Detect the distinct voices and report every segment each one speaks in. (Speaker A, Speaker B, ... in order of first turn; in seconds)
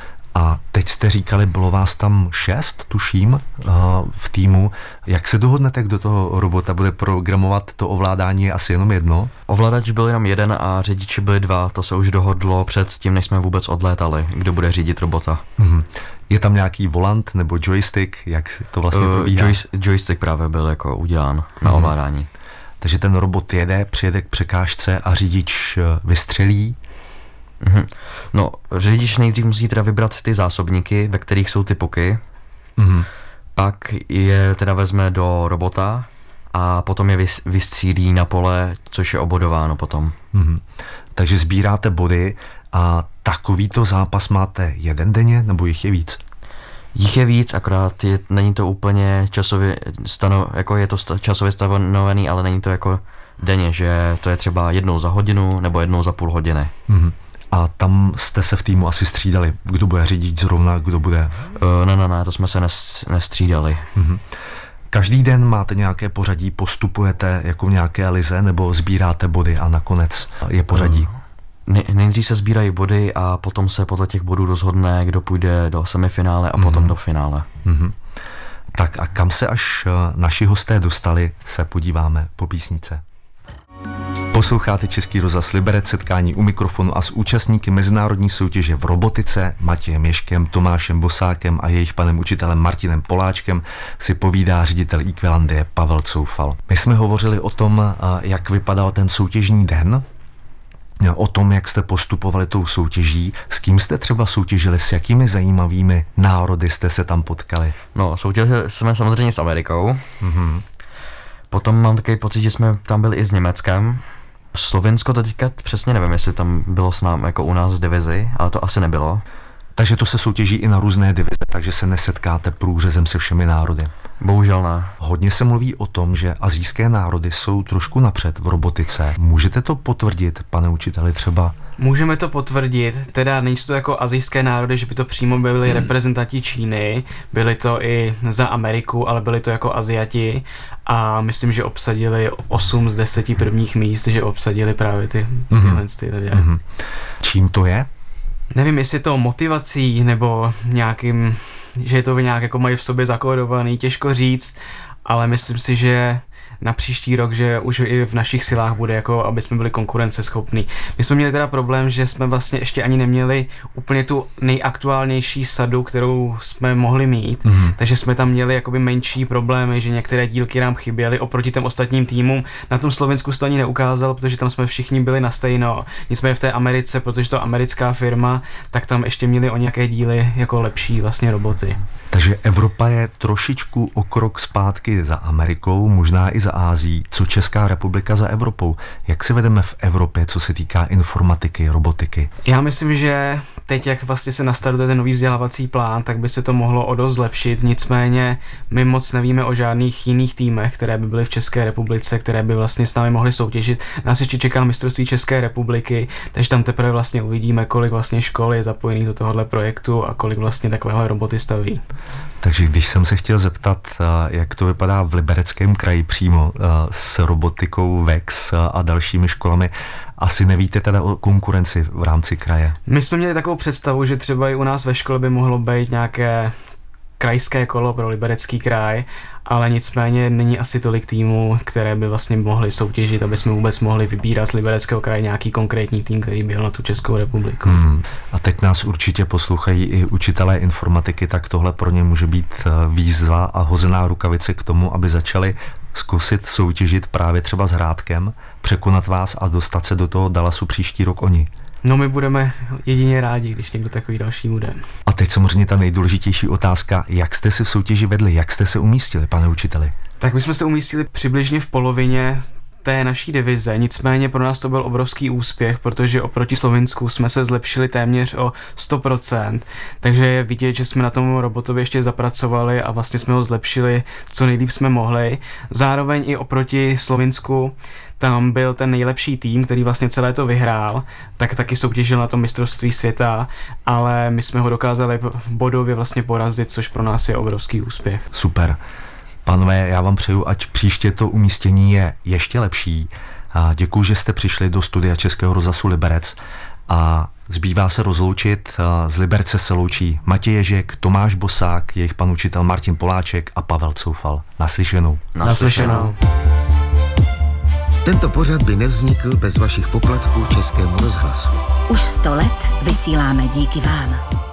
Speaker A: 0.3-9.3, 15.6-19.6, 21.6-21.9, 22.8-26.8, 32.8-33.1, 40.3-40.6, 41.1-46.2, 56.9-61.4, 64.0-64.2, 64.9-71.1, 76.6-76.9, 77.6-78.0, 78.7-83.0, 84.3-100.0, 101.0-107.8, 110.2-110.6, 119.8-123.9, 125.0-131.5, 145.5-146.6, 147.2-147.9, 167.4-167.7, 182.1-192.3, 212.4-222.8, 237.6-251.5, 255.1-259.9, 288.3-288.8, 289.4-296.4, 296.9-305.3
Speaker B: 9.5-15.4, 18.9-22.3, 27.6-32.2, 33.5-40.1, 46.9-56.7, 61.5-63.9, 70.7-71.1, 71.7-77.5, 107.9-110.0, 111.5-114.0, 114.5-119.2, 124.2-124.9, 305.3-306.1
Speaker C: 131.8-146.4, 148.5-181.8, 192.4-211.8, 222.9-226.6, 227.2-237.8, 251.8-254.8, 260.2-288.3, 305.4-306.1
Speaker D: 308.0-311.6
Speaker E: 311.9-314.2